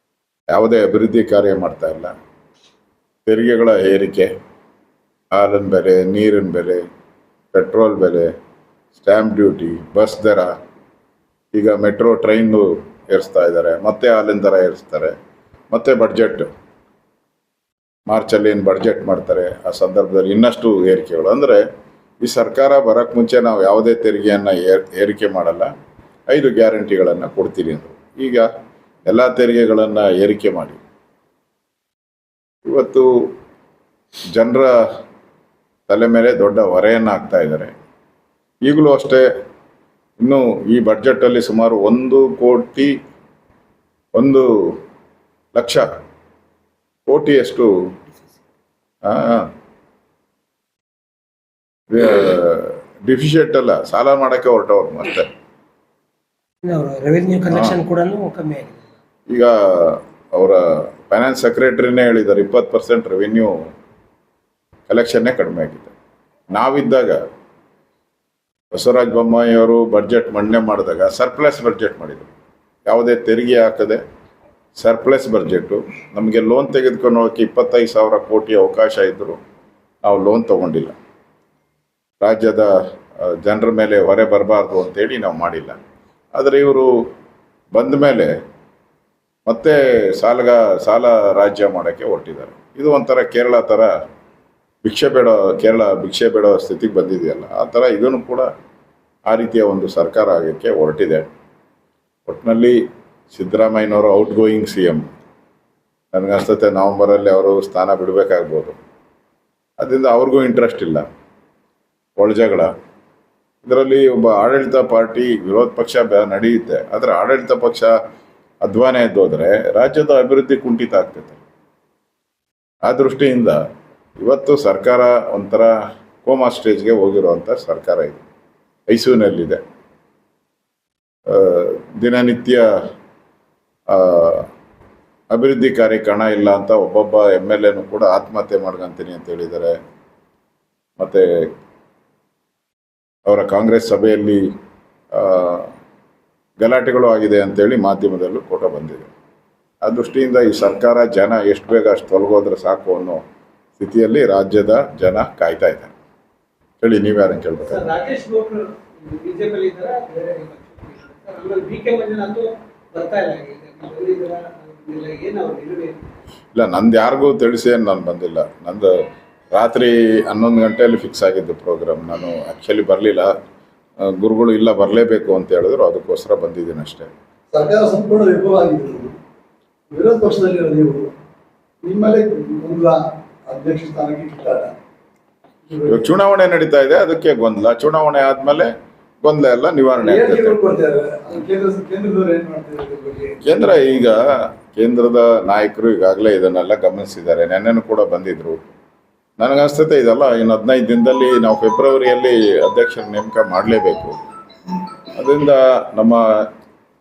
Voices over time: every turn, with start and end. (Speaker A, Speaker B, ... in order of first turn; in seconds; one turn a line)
Speaker A: 0.5-2.1
Speaker A: 3.3-4.3
Speaker A: 5.3-6.8
Speaker A: 7.5-8.3
Speaker A: 8.9-10.5
Speaker A: 11.5-15.1
Speaker A: 15.7-16.5
Speaker A: 18.1-21.6
Speaker A: 22.2-25.7
Speaker A: 26.3-28.5
Speaker A: 29.1-30.8
Speaker A: 32.7-33.1
Speaker A: 34.3-34.7
Speaker A: 35.9-37.7
Speaker A: 38.7-39.2
Speaker A: 40.2-42.9
Speaker A: 44.1-44.5
Speaker A: 45.5-45.9
Speaker A: 47.1-47.7
Speaker A: 49.0-49.5
Speaker A: 51.9-55.3
Speaker B: 56.7-58.7
Speaker A: 57.5-57.8
Speaker A: 59.3-63.5
Speaker A: 64.9-65.9
Speaker A: 66.5-67.2
Speaker A: 68.7-72.3
Speaker A: 72.9-74.0
Speaker A: 74.8-79.4
Speaker A: 80.0-80.9
Speaker A: 82.2-82.7
Speaker A: 83.2-85.8
Speaker A: 86.3-86.9
Speaker A: 87.7-88.3
Speaker A: 89.5-93.9
Speaker A: 94.8-98.5
Speaker A: 99.3-101.3
Speaker A: 102.3-102.8
Speaker A: 103.3-105.0
Speaker A: 106.1-108.8
Speaker A: 109.8-111.0
Speaker A: 112.2-112.7
Speaker A: 113.6-117.9
Speaker A: 118.6-121.4
Speaker A: 122.9-123.6
Speaker A: 124.2-125.7
Speaker A: 126.2-128.2
Speaker A: 128.9-129.6
Speaker A: 131.3-132.7
Speaker A: 133.9-134.5
Speaker A: 135.3-139.8
Speaker A: 141.0-141.2
Speaker A: 143.3-144.4
Speaker A: 145.1-145.7
Speaker A: 146.6-149.1
Speaker A: 149.8-153.2
Speaker A: 153.8-155.9
Speaker A: 156.8-157.9
Speaker C: 157.6-166.0
Speaker A: 166.5-168.9
Speaker A: 169.5-173.3
Speaker A: 174.0-177.1
Speaker D: 177.5-179.2
Speaker D: 179.9-181.1
Speaker D: 181.8-184.7
Speaker A: 185.9-188.7
Speaker A: 189.2-190.6
Speaker D: 190.0-193.7
Speaker A: 193.4-198.7
Speaker A: 199.4-204.2
Speaker A: 205.2-206.2